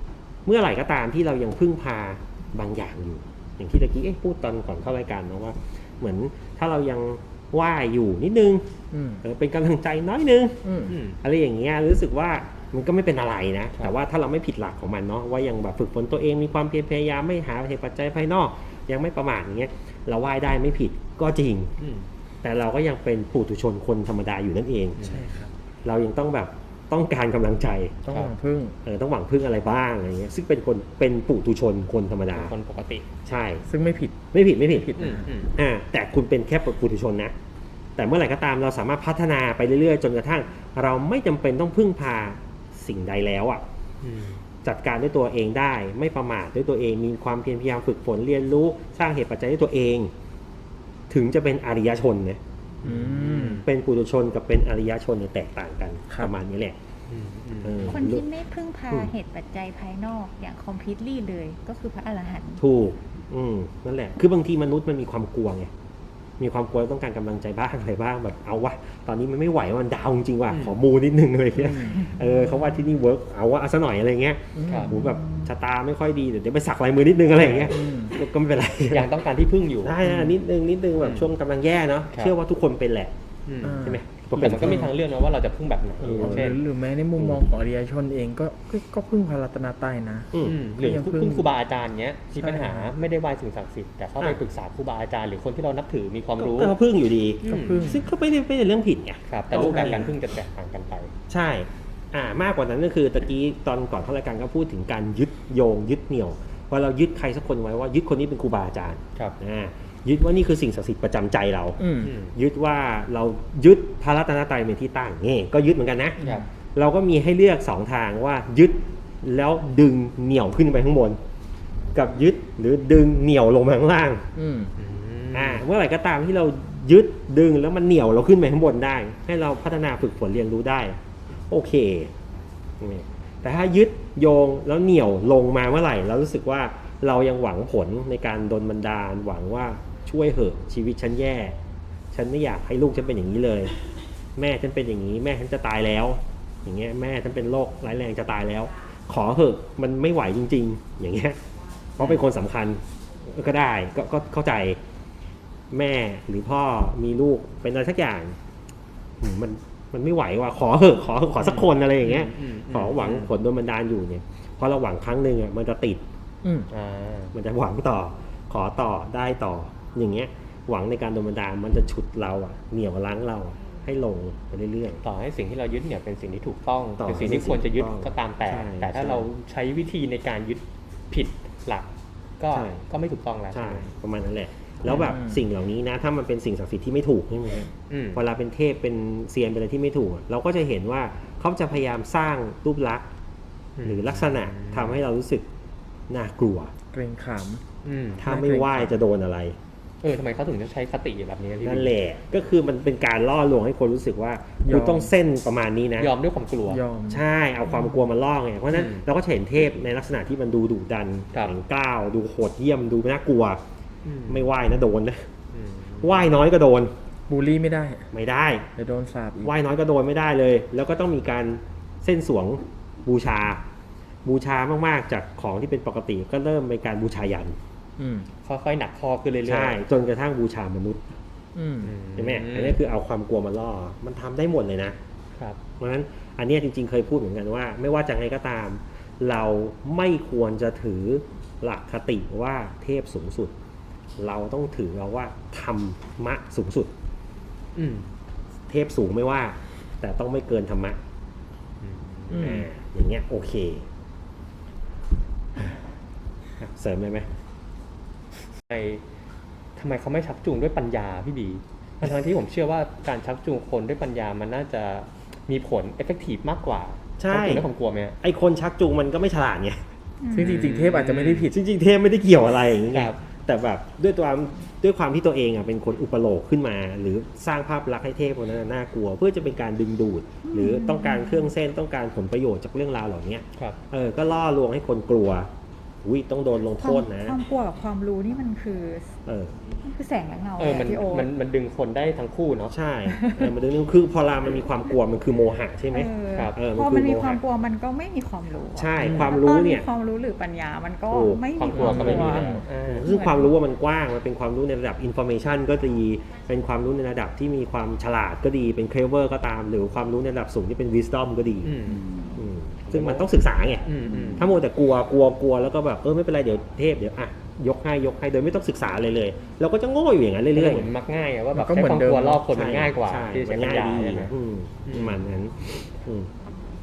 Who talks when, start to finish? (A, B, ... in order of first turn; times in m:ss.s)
0:00.4-0:08.6 A
0:08.9-0:09.2 B
0:09.2-0:21.7 A
0:10.6-0:11.0 B
0:10.9-0:11.2 C
0:21.8-0:22.1 C
0:22.4-0:25.0 A
0:25.0-0:25.3 C
0:25.0-0:25.5 B
0:25.8-0:28.0 A
0:28.0-0:28.8 B
0:28.8-0:32.5 A
0:32.3-0:33.1 C
0:33.2-0:33.6 A
0:33.7-0:35.3 B
0:34.3-0:37.3 A
0:35.0-0:35.5 C
0:38.0-0:43.6 A
0:44.0-0:44.4 C
0:44.6-0:50.1 A
0:51.1-0:52.4 A
0:52.8-0:53.6 B
0:52.8-0:53.6 C
0:53.6-0:56.8 A
0:57.1-0:58.0 C
0:57.6-0:58.2 A
0:57.9-1:02.6 D
1:02.6-1:05.7 A
1:06.4-1:19.1 A
1:10.5-1:10.7 C
1:11.6-1:12.0 B
1:14.5-1:15.5 B
1:14.6-1:15.0 C
1:17.4-1:17.8 C
1:17.6-1:18.2 B
1:18.8-1:20.2 C
1:19.8-1:23.1 A
1:20.0-1:20.3 B
1:21.0-1:21.3 C
1:23.4-1:26.6 C
1:23.6-1:24.9 B
1:23.8-1:24.9 A
1:26.0-1:31.5 B
1:30.3-1:30.6 A
1:30.4-1:36.8 C
1:32.3-1:32.9 B
1:36.4-1:40.1 A
1:37.4-1:37.9 C
1:37.4-1:38.0 B
1:39.3-1:41.1 C
1:39.6-1:40.0 B
1:41.3-1:56.2 A
1:51.8-1:52.1 B
1:52.0-1:52.3 C
1:56.2-1:56.5 B
1:56.2-1:56.5 C
1:56.7-2:01.2 A
2:01.9-2:04.3 A
2:04.3-2:04.7 B
2:04.8-2:05.6 C
2:05.3-2:11.0 A
2:11.5-2:12.1 A
2:12.8-2:21.6 A
2:22.1-2:23.8 A
2:24.4-2:31.4 A
2:32.0-2:34.8 A
2:35.7-2:38.4 A
2:39.2-2:46.0 A
2:41.4-2:43.3 C
2:46.4-2:46.7 B
2:46.7-2:47.3 C
2:47.3-2:55.0 A
2:55.0-3:03.9 C
2:57.0-2:59.2 A
3:02.5-3:02.8 A
3:03.5-3:13.1 A
3:04.8-3:05.4 B
3:07.9-3:08.2 C
3:13.8-3:15.0 C
3:13.8-3:15.5 A
3:16.1-3:16.7 A
3:16.9-3:17.6 B
3:17.8-3:18.2 C
3:18.2-3:19.6 A
3:18.2-3:18.9 B
3:20.0-3:21.9 C
3:21.6-3:26.1 A
3:24.6-3:25.1 B
3:26.0-3:26.8 C
3:26.7-3:27.2 B
3:27.1-3:33.6 A
3:28.7-3:29.0 C
3:34.0-3:34.5 C
3:34.3-3:35.3 A
3:35.5-3:36.3 C
3:36.0-3:36.9 A
3:37.3-3:38.1 B
3:38.1-3:38.7 A
3:38.8-3:39.5 B
3:39.4-3:43.6 A
3:44.2-3:47.6 A
3:48.0-3:48.3 B
3:48.4-3:49.8 C
3:49.4-3:51.1 A
3:51.5-3:51.9 B
3:51.8-3:52.8 C
3:52.2-3:55.0 A
3:55.8-4:03.5 A
4:04.2-4:06.9 A
4:07.7-4:08.1 C
4:08.7-4:11.0 A
4:11.8-4:12.6 C
4:12.3-4:12.7 B
4:12.3-4:13.9 A
4:16.6-4:17.3 A
4:18.7-4:19.0 C
4:19.7-4:28.2 C
4:27.2-4:27.6 A
4:28.2-4:29.8 A
4:30.2-4:30.7 D
4:30.3-4:31.6 B
4:30.3-4:31.5 C
4:31.5-4:45.5 A
4:32.9-4:33.2 C
4:40.4-4:41.5 D
4:46.0-4:47.4 A
4:46.8-4:49.1 D
4:49.2-4:49.6 A
4:49.8-4:51.3 D
4:50.6-4:52.7 C
4:52.7-4:57.4 A
4:53.1-4:53.5 D
4:55.9-5:03.5 D
4:58.8-4:59.9 A
4:59.0-4:59.4 B
5:01.1-5:11.8 A
5:01.6-5:03.5 C
5:01.7-5:02.6 B
5:11.6-5:12.0 C
5:11.8-5:12.4 D
5:12.3-5:20.9 A
5:12.9-5:13.3 C
5:13.8-5:14.5 C
5:20.5-5:24.3 C
5:21.5-5:22.5 B
5:22.5-5:26.3 A
5:24.8-5:25.2 C